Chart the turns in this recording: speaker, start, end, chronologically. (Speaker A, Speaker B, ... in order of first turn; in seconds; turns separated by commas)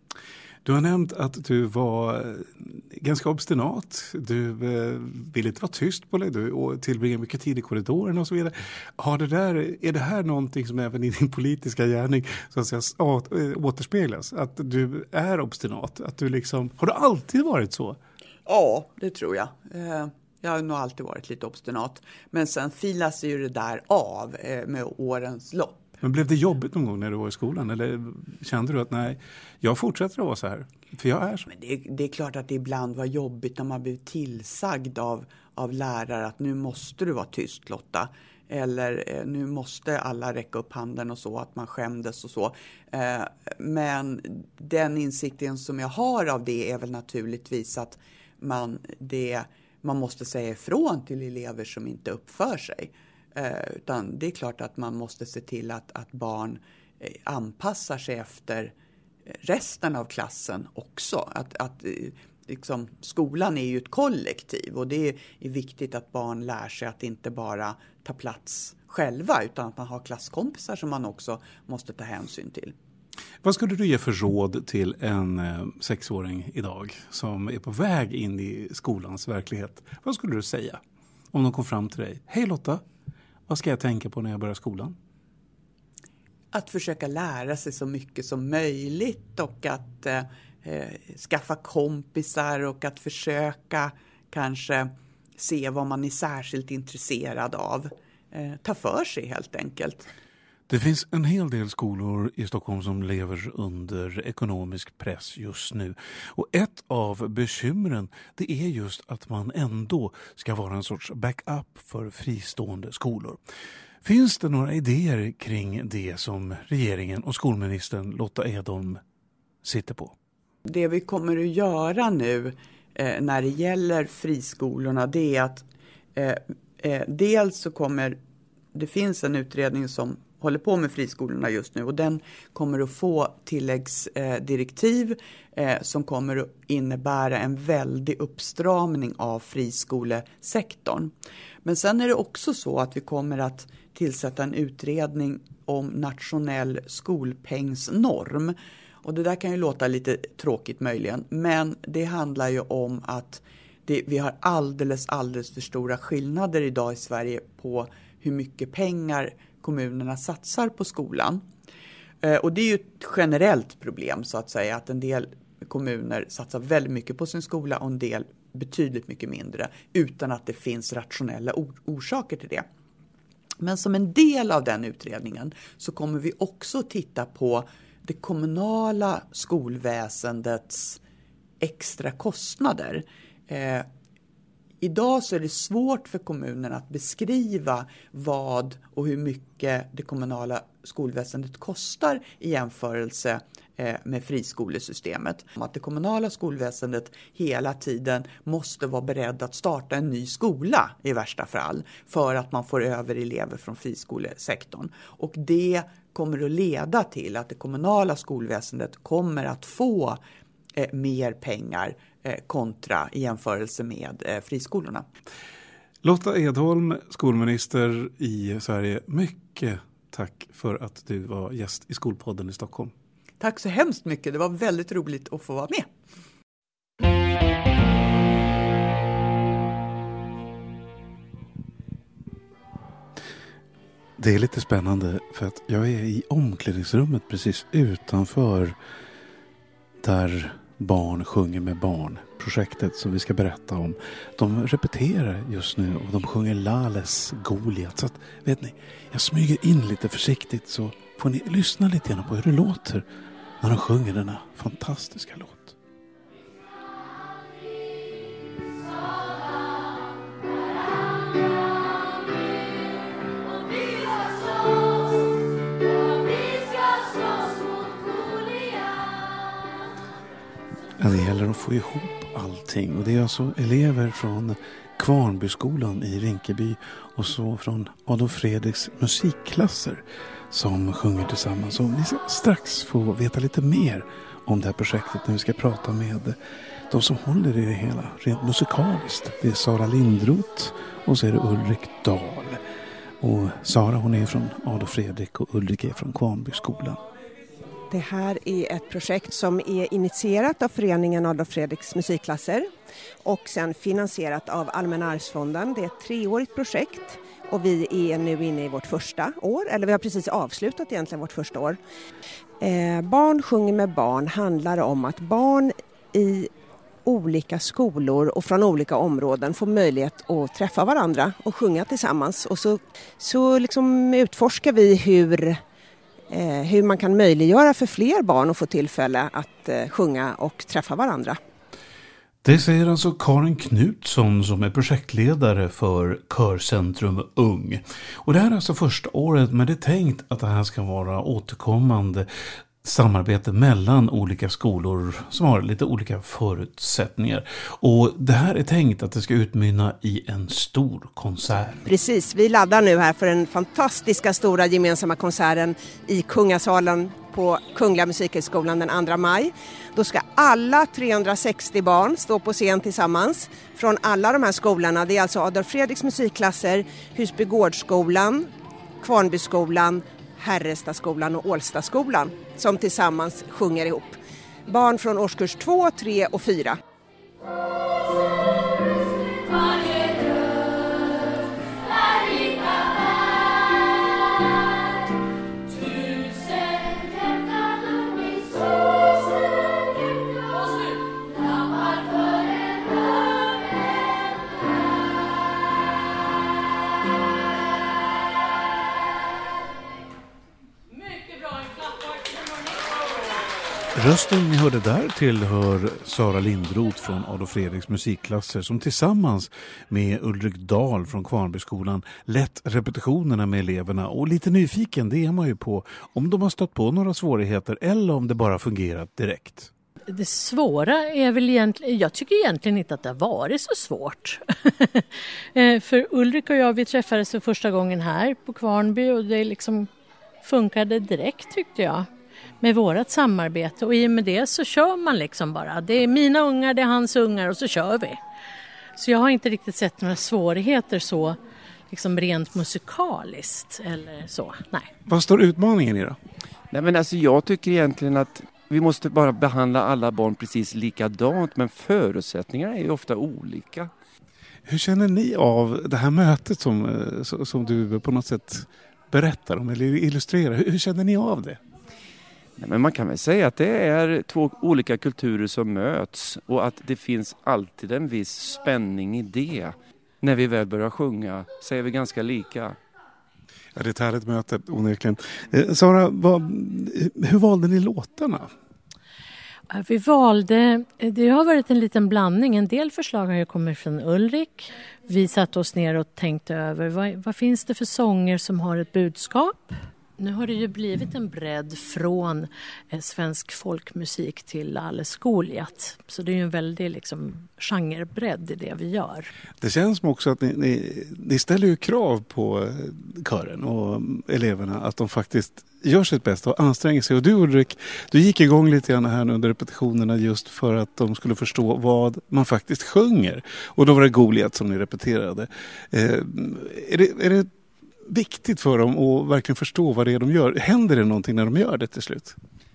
Speaker A: 0.7-18.0, Speaker B: 18.5-25.9, Speaker A: 26.0-31.5, Speaker B: 31.5-58.7, Speaker B: 59.3-72.8, Speaker A: 73.4-82.8, Speaker A: 83.5-85.0, Speaker B: 86.5-100.1, Speaker A: 100.7-113.4, Speaker A: 114.0-119.0, Speaker A: 119.6-120.1, Speaker B: 120.7-125.7, Speaker B: 126.2-128.2, Speaker B: 128.7-141.1, Speaker B: 141.6-161.4, Speaker B: 162.2-172.7, Speaker B: 173.6-181.0, Speaker B: 181.6-183.9, Speaker B: 184.8-210.2, Speaker B: 210.8-215.1, Speaker A: 216.0-222.9, Speaker B: 223.4-225.9, Speaker A: 234.2-238.8, Speaker A: 240.0-253.1, Speaker A: 253.6-255.8, Speaker A: 271.0-286.4, Speaker A: 286.9-292.6, Speaker A: 293.2-297.0, Speaker C: 297.9-302.7, Speaker C: 303.2-311.8, Speaker C: 312.6-316.5, Speaker C: 317.1-325.6, Speaker C: 326.3-331.4, Speaker A: 332.4-342.3, Speaker A: 342.8-351.9, Speaker C: 351.9-368.5, Speaker C: 369.0-376.8, Speaker A: 403.9-419.7, Speaker D: 420.1-429.9, Speaker D: 430.4-432.1, Speaker D: 432.6-438.2, Speaker D: 439.0-441.4, Speaker D: 441.9-444.9, Speaker A: 445.1-446.2, Speaker E: 446.7-453.9, Speaker A: 454.7-461.6, Speaker E: 462.6-472.8, Speaker A: 473.7-478.5, Speaker D: 479.7-499.3, Speaker A: 499.6-517.5, Speaker A: 518.0-522.4